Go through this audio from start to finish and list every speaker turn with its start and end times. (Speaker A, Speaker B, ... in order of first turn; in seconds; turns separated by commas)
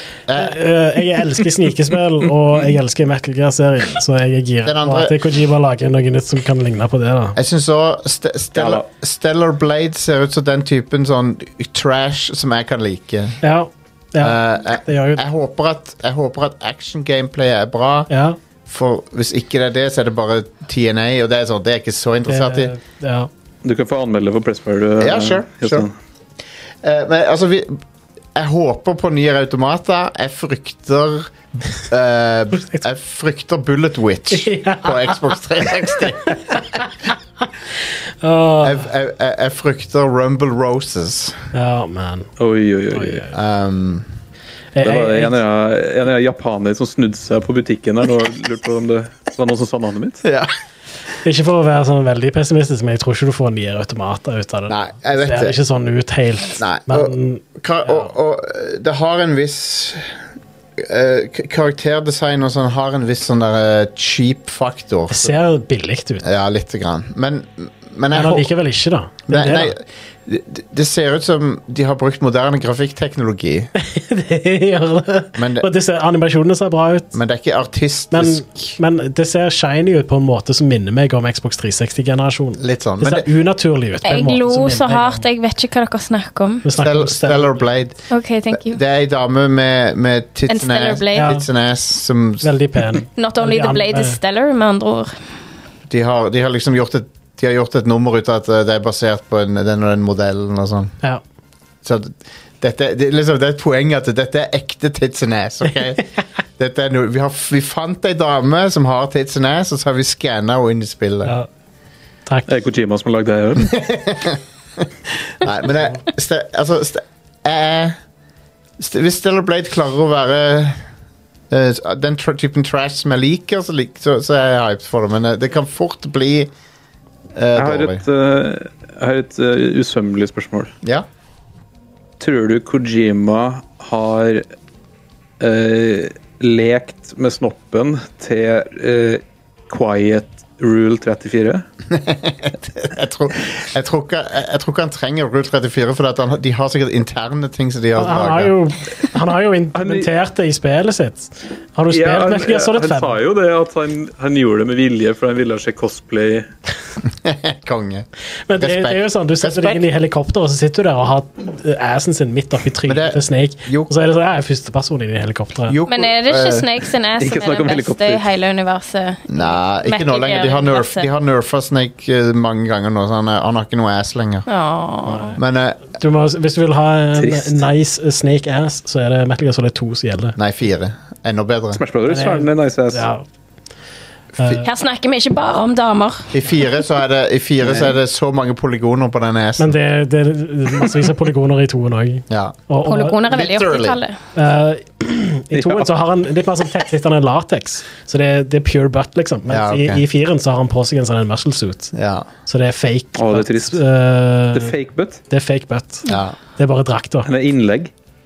Speaker A: 0.3-0.6, Speaker B: 0.3-7.4, Speaker A: 4.6-5.2, Speaker A: 7.4-13.4, Speaker C: 8.6-8.8, Speaker B: 13.4-15.2, Speaker A: 14.2-18.1, Speaker B: 18.1-18.4, Speaker A: 18.7-22.7, Speaker B: 22.3-23.3, Speaker C: 23.6-25.9, Speaker A: 25.0-25.9, Speaker A: 26.8-27.8, Speaker A: 28.4-36.8, Speaker B: 34.3-35.4, Speaker B: 35.9-36.9, Speaker B: 38.2-38.8, Speaker A: 38.6-41.5, Speaker B: 41.5-42.3, Speaker C: 42.4-43.2, Speaker B: 42.9-43.3, Speaker A: 43.3-44.1, Speaker B: 44.8-45.4, Speaker C: 44.8-50.2, Speaker A: 50.2-50.5, Speaker B: 51.2-58.1, Speaker A: 54.7-55.6, Speaker A: 56.6-60.1, Speaker A: 60.8-65.4, Speaker B: 65.1-66.3, Speaker A: 66.2-68.5, Speaker B: 68.1-69.7, Speaker A: 69.3-73.7, Speaker B: 73.8-77.2, Speaker A: 75.4-75.7, Speaker A: 77.1-78.7, Speaker B: 78.1-85.2, Speaker A: 82.6-83.3, Speaker D: 84.0-86.7, Speaker B: 86.6-87.7, Speaker A: 86.8-92.5, Speaker D: 88.1-88.8, Speaker D: 90.5-91.3, Speaker B: 91.1-91.5, Speaker B: 92.4-94.2, Speaker D: 93.2-95.1, Speaker A: 95.9-101.0, Speaker A: 101.8-111.4, Speaker C: 112.5-113.8, Speaker A: 113.6-118.0, Speaker A: 118.8-120.8, Speaker A: 121.5-126.5, Speaker A: 127.3-128.0, Speaker C: 127.5-130.7, Speaker C: 132.2-134.5, Speaker C: 135.4-141.7, Speaker A: 141.9-148.5, Speaker B: 148.0-153.2, Speaker C: 149.7-150.1, Speaker C: 151.9-156.5, Speaker A: 157.1-159.8, Speaker B: 158.5-165.8, Speaker A: 162.9-163.9, Speaker A: 165.7-166.7, Speaker D: 165.9-171.1, Speaker C: 167.2-168.3, Speaker A: 169.3-174.5, Speaker D: 174.5-175.4, Speaker B: 175.1-175.4, Speaker A: 175.4-175.8, Speaker B: 175.9-180.4, Speaker C: 177.2-177.6, Speaker A: 180.4-181.8, Speaker C: 181.7-183.1, Speaker B: 182.1-183.2, Speaker B: 184.4-184.7, Speaker D: 184.6-186.3, Speaker A: 186.3-189.8, Speaker C: 187.6-187.9, Speaker B: 189.6-193.2, Speaker A: 192.3-192.6, Speaker D: 192.8-194.2, Speaker A: 193.3-194.0, Speaker B: 194.3-201.9, Speaker C: 195.5-195.9, Speaker A: 199.5-200.0, Speaker A: 201.9-202.3, Speaker B: 202.5-204.7, Speaker C: 203.2-203.8, Speaker C: 204.5-205.2, Speaker B: 205.3-206.1, Speaker A: 206.1-206.3, Speaker B: 206.6-207.3, Speaker C: 207.2-207.9